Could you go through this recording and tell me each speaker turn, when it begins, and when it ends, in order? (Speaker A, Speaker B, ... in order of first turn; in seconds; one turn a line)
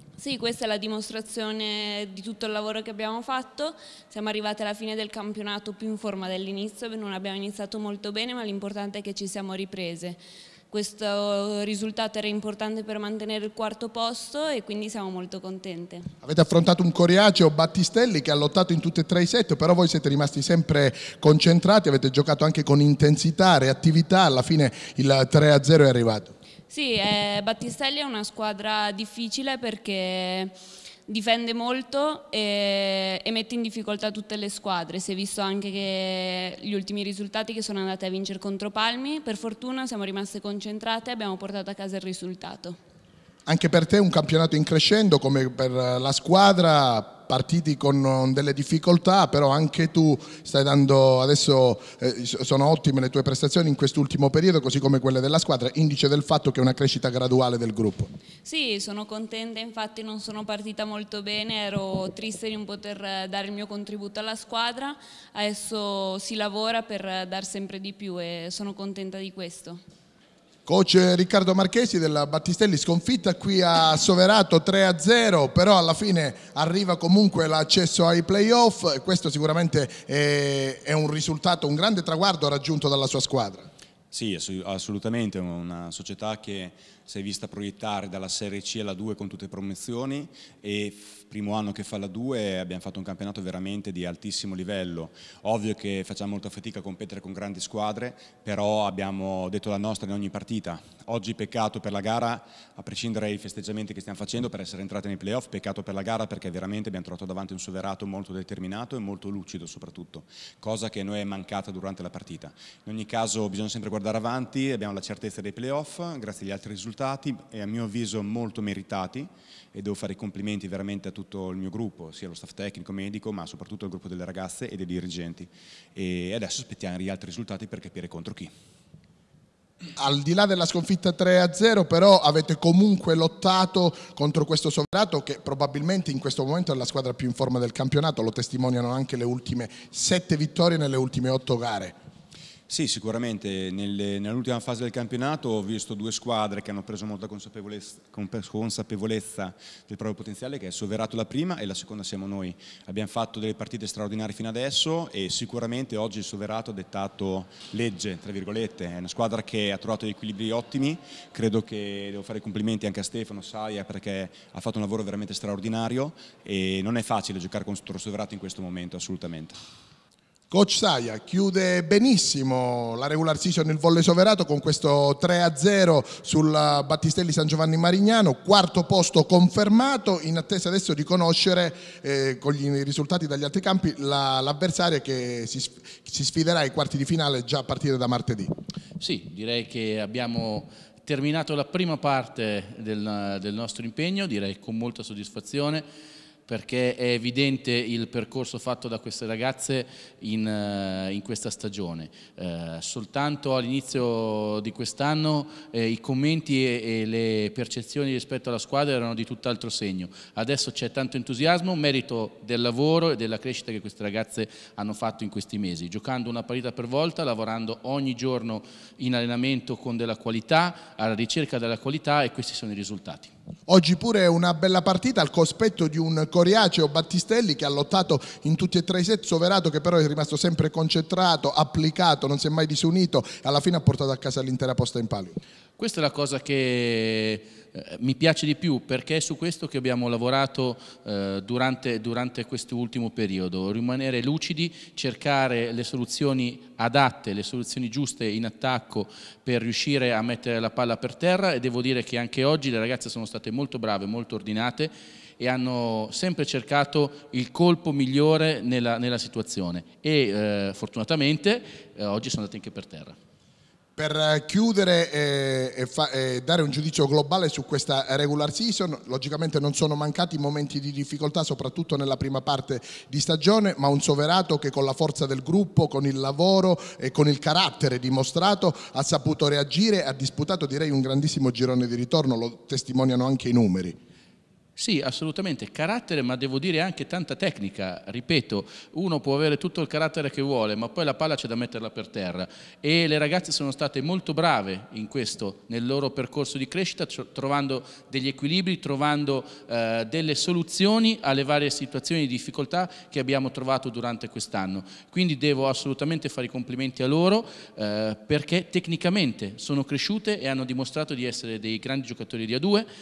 Speaker A: 0.2-16.1
Speaker B: 16.2-26.3
Speaker A: 26.7-30.5
Speaker A: 31.1-42.8
Speaker B: 43.5-58.1
Speaker A: 58.5-69.8
Speaker B: 70.7-83.7
Speaker C: 84.1-128.5
Speaker B: 130.0-142.0
Speaker C: 142.7-169.5
Speaker B: 170.5-188.5
Speaker D: 189.0-195.8
Speaker D: 196.5-223.3
Speaker B: 223.7-235.4
Speaker D: 235.8-263.2
Speaker B: 264.0-284.0
Speaker D: 284.8-312.9